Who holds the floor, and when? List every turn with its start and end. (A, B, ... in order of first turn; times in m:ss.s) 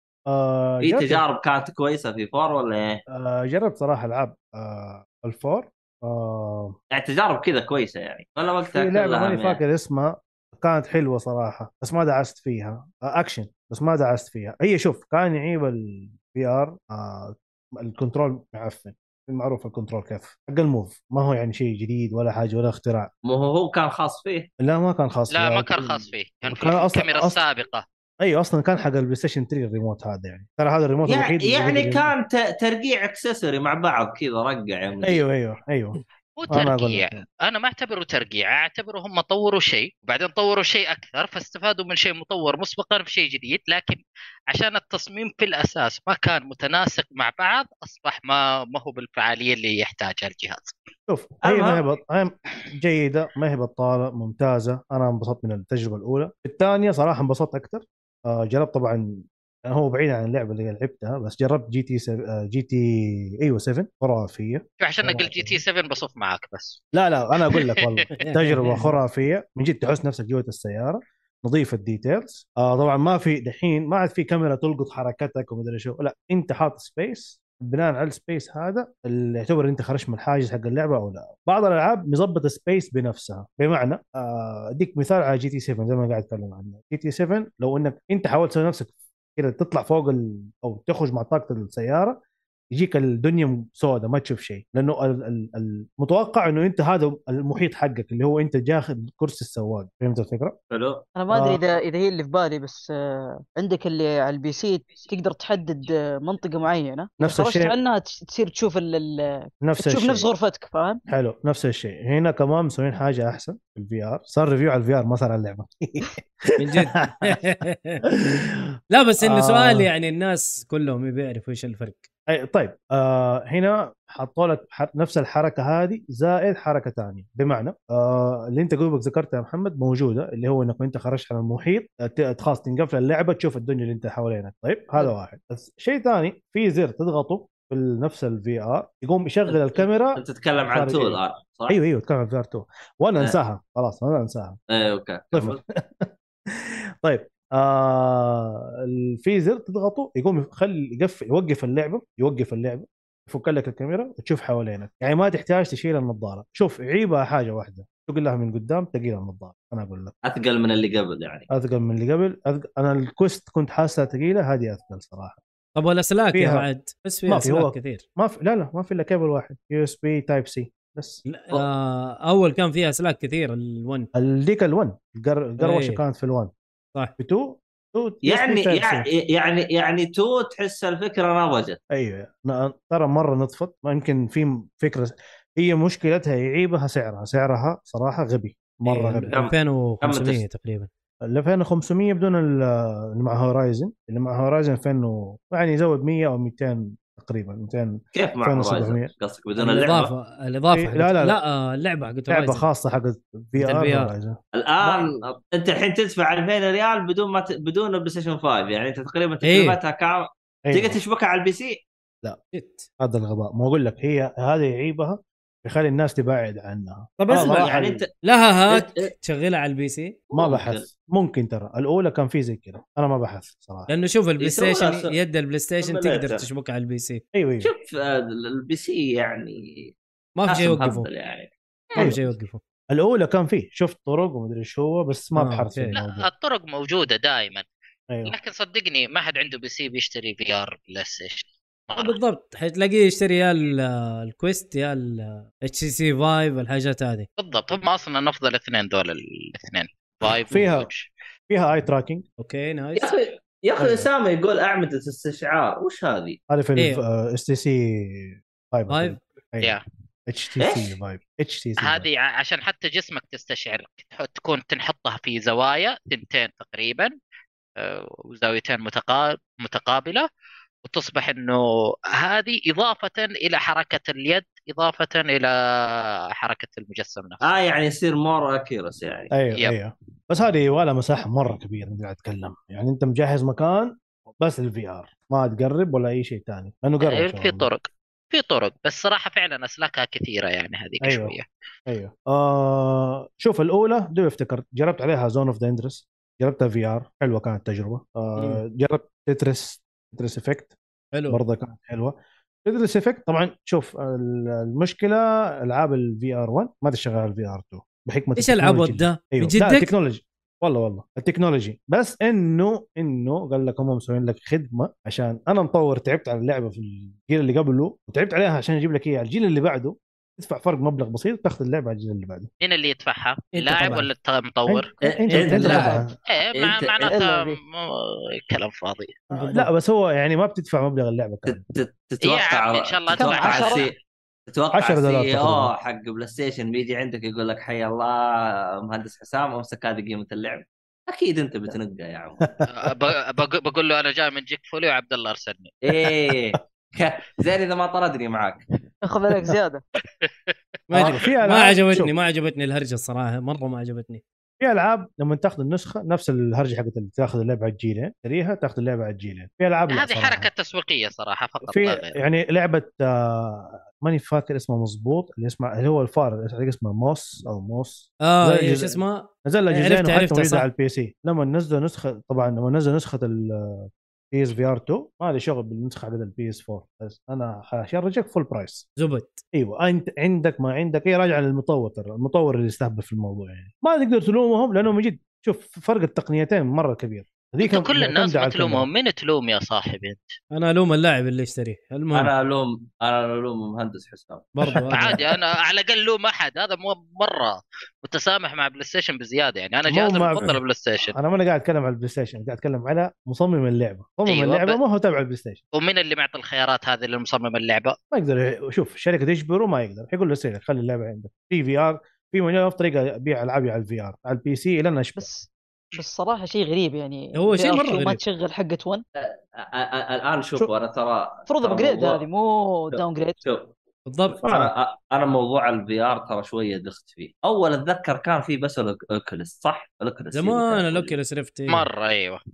0:00.3-0:01.2 A
0:00.8-0:03.0 B
0:03.1-0:06.8 A
0:06.9-0:09.6 B
0:08.6-0:23.1 A
0:23.2-0:24.5 B
0:24.6-0:27.4 A
0:25.3-0:27.8 C
0:28.2-0:32.1 A
0:31.0-0:35.2 B
0:35.0-0:36.0 A
0:36.4-0:50.7 C
0:36.5-0:37.2 A
0:51.1-1:05.6 A
0:51.4-0:51.8 B
1:04.8-1:06.8 C
1:06.9-1:32.2 A
1:07.5-1:07.8 C
1:08.2-1:08.9 D
1:32.7-1:40.5 A
1:40.7-1:41.1 B
1:41.2-1:51.0 E
1:41.3-1:41.6 A
1:47.2-1:47.7 A
1:49.6-1:50.3 A
1:51.1-1:57.4 A
1:56.6-1:58.0 D
1:58.9-2:02.1 D
1:59.2-1:59.9 A
2:02.3-2:24.6 A
2:19.5-2:21.8 B
2:24.7-2:25.6 B
2:25.3-2:40.1 A
2:40.2-2:41.5 B
2:41.5-2:45.4 A
2:45.7-2:48.0 D
2:46.3-2:46.7 A
2:47.3-2:51.2 A
2:51.2-2:54.1 D
2:54.1-2:56.5 A
2:55.6-2:56.0 D
2:57.2-2:59.0 A
2:58.2-3:01.8 B
3:01.9-3:09.3 A
3:08.9-3:10.9 D
3:09.3-3:10.4 B
3:11.3-3:19.1 A
3:18.1-3:20.1 B
3:19.6-3:22.6 D
3:20.7-3:21.4 A
3:22.3-3:25.1 A
3:23.6-3:24.1 D
3:24.5-3:31.8 B
3:29.4-3:29.8 D
3:30.7-3:31.0 A
3:32.5-3:32.9 D
3:33.0-3:38.0 A
3:37.2-3:40.2 D
3:37.3-3:38.1 B
3:38.7-3:39.1 B
3:40.3-3:40.8 B
3:40.3-3:43.9 A
3:43.9-3:47.2 D
3:44.4-3:45.1 B
3:45.8-3:46.5 B
3:47.3-3:47.7 A
3:47.6-3:49.9 B
3:50.4-3:51.1 D
3:50.5-3:51.5 B
3:52.0-3:52.2 A
3:52.0-3:52.6 D
3:52.9-3:56.3 A
3:55.4-3:55.9 D
3:55.9-3:57.6 C
3:58.2-4:02.2 C
4:01.9-4:07.3 D
4:07.4-4:11.1 C
4:10.5-4:10.9 A
4:11.5-4:12.2 A
4:12.4-4:13.1 D
4:13.0-4:16.4 B
4:13.8-4:14.1 A
4:16.5-4:19.8 A
4:16.8-4:17.0 D
4:18.9-4:19.2 D
4:20.3-4:22.0 A
4:20.6-4:20.9 B
4:21.8-4:27.1 C
4:27.8-4:30.2 C
4:30.8-4:31.6 C
4:32.2-4:37.6 C
4:37.4-4:39.3 B
4:39.3-4:47.7 A
4:47.0-4:51.5 C
4:51.0-4:51.3 A
4:51.9-5:00.7 A
5:01.1-5:01.4 D
5:01.3-5:22.5 A
5:08.4-5:09.9 D
5:22.6-5:24.9 C
5:23.5-5:24.1 D
5:24.7-5:26.1 A
5:25.0-5:26.0 B
5:25.4-5:25.8 D
5:26.3-5:29.2 C
5:26.5-5:27.2 B
5:27.1-5:27.6 E
5:29.3-5:29.7 D
5:29.3-5:31.6 A
5:31.4-5:42.5 B
5:32.2-5:33.8 C
5:33.2-5:33.9 E
5:34.7-5:35.7 A
5:42.7-5:45.7 C
5:45.8-5:48.6 B
5:49.0-5:49.8 E
5:50.2-5:51.2 C
5:50.9-5:54.2 D
5:50.9-5:52.1 A
5:54.6-6:00.5 A
5:59.9-6:02.2 C
6:01.6-6:18.8 A
6:08.2-6:10.7 D
6:19.0-6:19.4 D
6:19.5-6:28.9 A
6:27.6-6:30.3 C
6:30.5-6:32.3 D
6:32.1-6:34.5 B
6:34.6-6:35.2 D
6:34.9-6:41.1 C
6:39.9-6:40.5 A
6:41.1-6:45.6 A
6:44.3-6:44.8 C
6:45.7-6:48.0 C
6:48.1-6:55.3 A
6:55.2-6:59.0 E
6:57.3-6:58.2 D
6:59.2-7:02.2 B
7:01.5-7:03.4 E
7:02.9-7:03.7 B
7:04.0-7:04.4 D
7:04.4-7:11.2 B
7:04.4-7:04.7 A
7:10.3-7:11.9 D
7:11.7-7:12.4 C